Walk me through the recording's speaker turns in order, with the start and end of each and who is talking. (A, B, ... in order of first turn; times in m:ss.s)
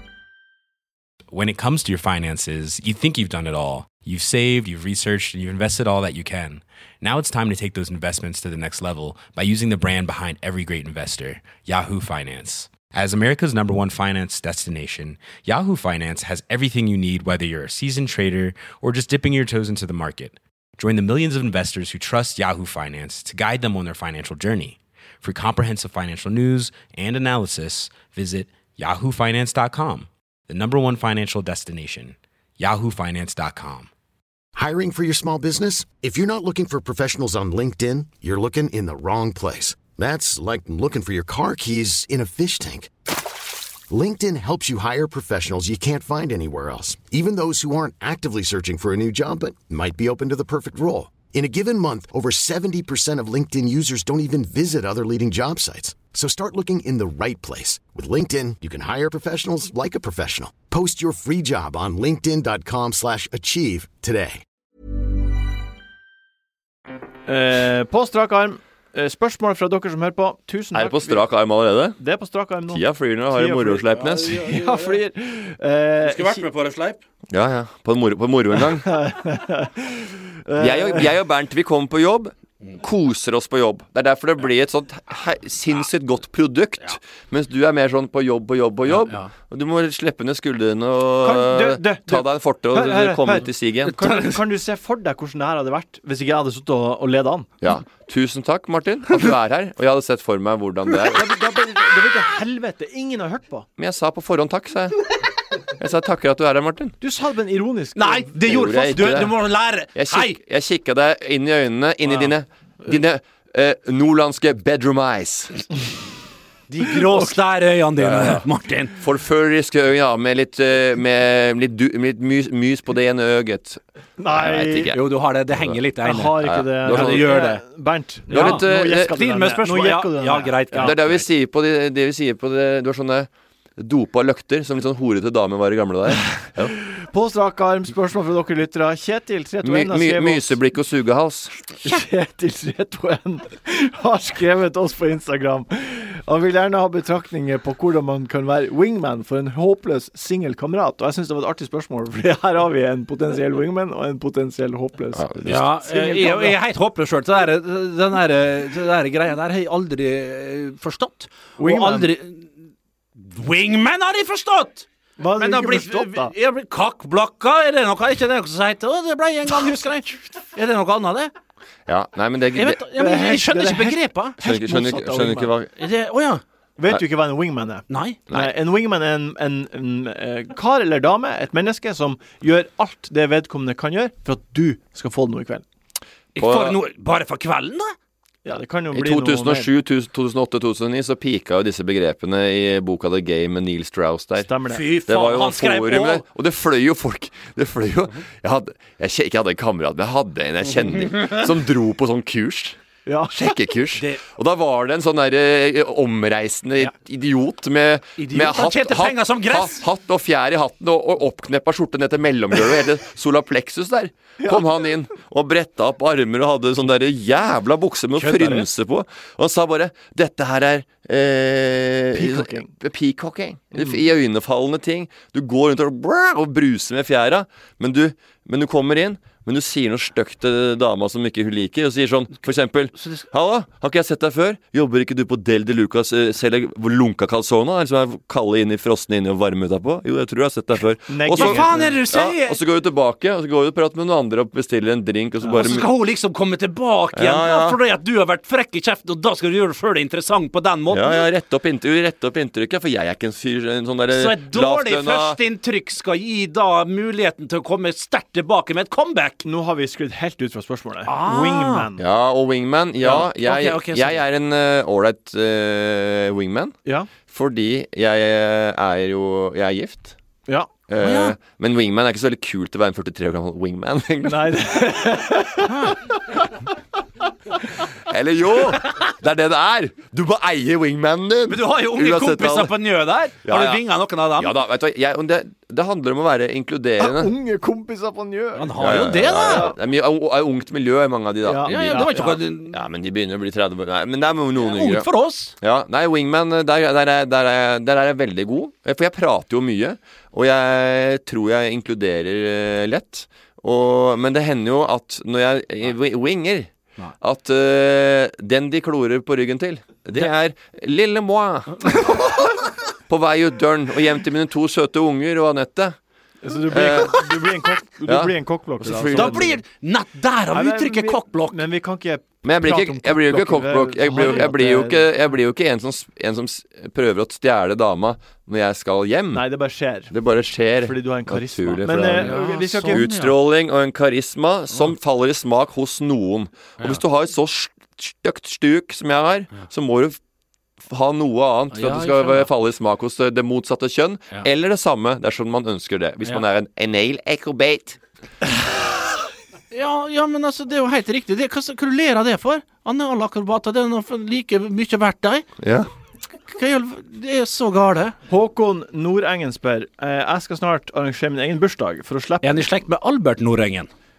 0:01.3-0:33.9 A
0:34.5-0:42.9 B
0:43.9-1:04.4 B
1:07.3-1:11.2 C
1:10.7-1:12.0 D
1:12.0-1:16.4 C
1:12.7-1:14.4 D
1:14.0-1:15.0 E
1:16.0-1:17.0 E
1:17.3-1:18.9 D
1:18.8-1:21.1 C
1:20.6-1:34.0 D
1:28.9-1:29.3 E
1:31.2-1:37.5 C
1:34.0-1:34.3 E
1:37.6-1:41.2 D
1:41.0-1:43.6 C
1:43.8-1:45.1 D
1:45.8-1:47.0 D
1:47.0-1:48.4 C
1:48.0-1:50.4 E
1:48.4-1:49.3 D
1:49.9-1:55.7 D
1:56.7-1:59.0 E
1:58.0-1:58.4 D
1:59.0-2:03.8 D
2:04.2-2:04.9 C
2:04.3-2:05.0 D
2:04.9-2:07.6 E
2:06.0-2:11.0 C
2:06.4-2:07.4 D
2:08.3-2:11.2 E
2:08.3-2:09.1 D
2:10.8-2:16.8 D
2:16.8-2:20.5 C
2:19.6-2:21.6 D
2:21.8-2:36.6 C
2:35.1-2:35.6 D
2:35.4-2:42.5 E
2:41.6-2:42.1 C
2:43.2-2:44.8 E
2:45.2-2:46.3 C
2:45.4-2:51.3 E
2:51.9-2:52.8 D
2:52.5-2:54.4 E
2:53.0-2:55.5 C
2:54.4-2:55.7 D
2:55.7-2:56.4 E
2:56.8-3:05.6 C
2:57.9-2:58.2 E
3:06.3-3:07.9 E
3:06.4-3:06.8 D
3:08.4-3:09.7 C
3:08.9-3:14.5 D
3:14.4-3:14.8 C
3:14.7-3:16.2 E
3:15.0-3:22.8 D
3:23.0-3:23.6 C
3:23.3-4:05.9 D
3:24.0-3:24.2 E
3:28.2-3:29.8 E
3:38.2-3:38.7 E
3:42.1-3:42.7 C
3:53.0-3:53.3 E
4:01.1-4:01.9 C
4:01.3-4:02.6 E
4:05.5-4:11.2 E
4:07.1-4:07.8 D
4:10.9-4:15.4 D
4:14.1-4:19.4 E
4:19.4-4:22.0 C
4:21.0-4:21.9 E
4:22.0-4:26.8 D
4:23.0-4:24.2 E
4:26.8-4:27.1 C
4:27.3-4:30.1 D
4:30.9-4:34.6 D
4:31.0-4:31.4 E
4:34.2-4:36.2 C
4:35.6-4:36.0 E
4:38.0-4:42.7 D
4:41.5-4:44.5 E
4:43.4-4:43.8 D
4:44.4-4:47.3 D
4:47.0-4:49.8 C
4:48.6-4:49.7 E
4:48.8-4:55.1 D
4:51.4-4:52.4 C
4:51.6-4:52.8 E
4:54.6-4:55.5 E
4:55.6-5:06.7 D
5:07.2-5:16.0 D
5:16.4-5:19.6 C
5:16.7-5:17.3 D
5:18.1-5:19.5 D
5:19.1-5:21.6 E
5:20.5-5:25.1 C
5:22.4-5:29.4 D
5:24.2-5:24.4 E
5:29.3-5:30.1 C
5:30.1-5:40.2 D
5:30.8-5:33.1 C
5:32.1-5:33.3 E
5:40.8-5:48.0 D
5:41.7-5:42.5 E
5:49.7-5:55.4 E
5:55.6-5:55.9 D
5:56.5-5:58.1 E
5:58.3-6:02.6 C
6:02.4-6:03.9 E